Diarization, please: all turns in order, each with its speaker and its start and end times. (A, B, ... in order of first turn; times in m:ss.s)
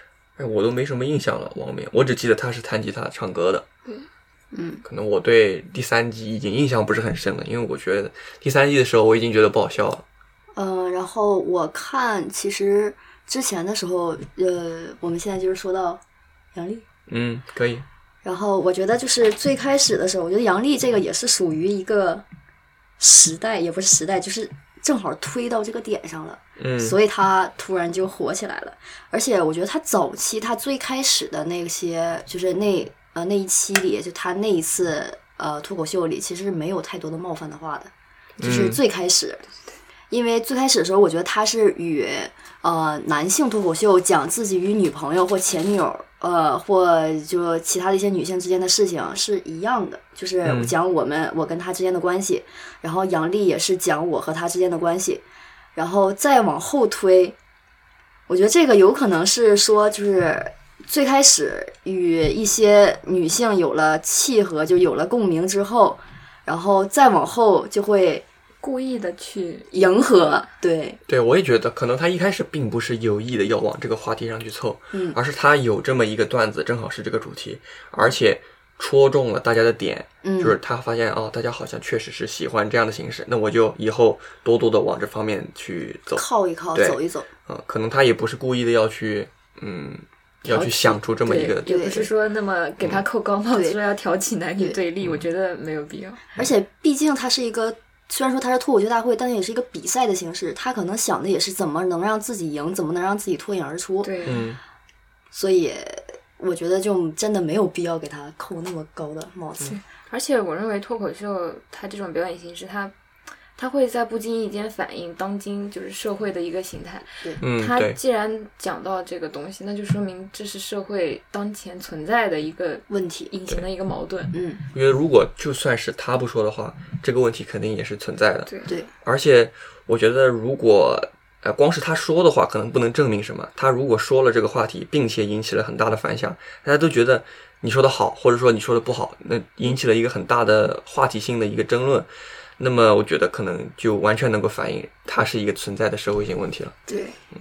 0:00.4-0:03.6 A
0:04.5-0:04.8 B
0:04.8-0:10.0 A
0:10.6-0:16.0 B
0:16.6-0:16.8 B
0:17.1-0:17.9 A
0:18.2-0:22.2 B
0:23.0-0:37.9 B
0:26.6-0:27.0 A
0:38.4-0:38.8 A
0:38.4-0:39.4 B
0:40.1-0:55.2 B
0:50.4-0:50.7 A
0:55.8-0:57.4 B
0:58.3-1:08.2 B
1:08.6-1:10.5 C
1:09.7-1:11.0 B
1:11.1-1:26.2 A
1:14.9-1:15.2 B
1:20.2-1:20.6 B
1:26.2-1:27.3 B
1:26.8-1:31.7 A
1:30.5-1:36.2 C
1:31.6-1:32.1 B
1:33.5-1:33.8 B
1:36.4-1:44.1 B
1:44.0-1:44.5 C
1:44.2-1:44.6 A
1:45.3-1:49.8 B
1:49.6-1:52.9 C
1:53.6-2:04.4 C
1:57.4-1:58.0 A
2:02.9-2:03.3 B
2:04.3-2:04.6 B
2:04.7-2:22.1 A
2:08.5-2:08.7 C
2:22.6-2:26.8 A
2:26.9-2:27.2 B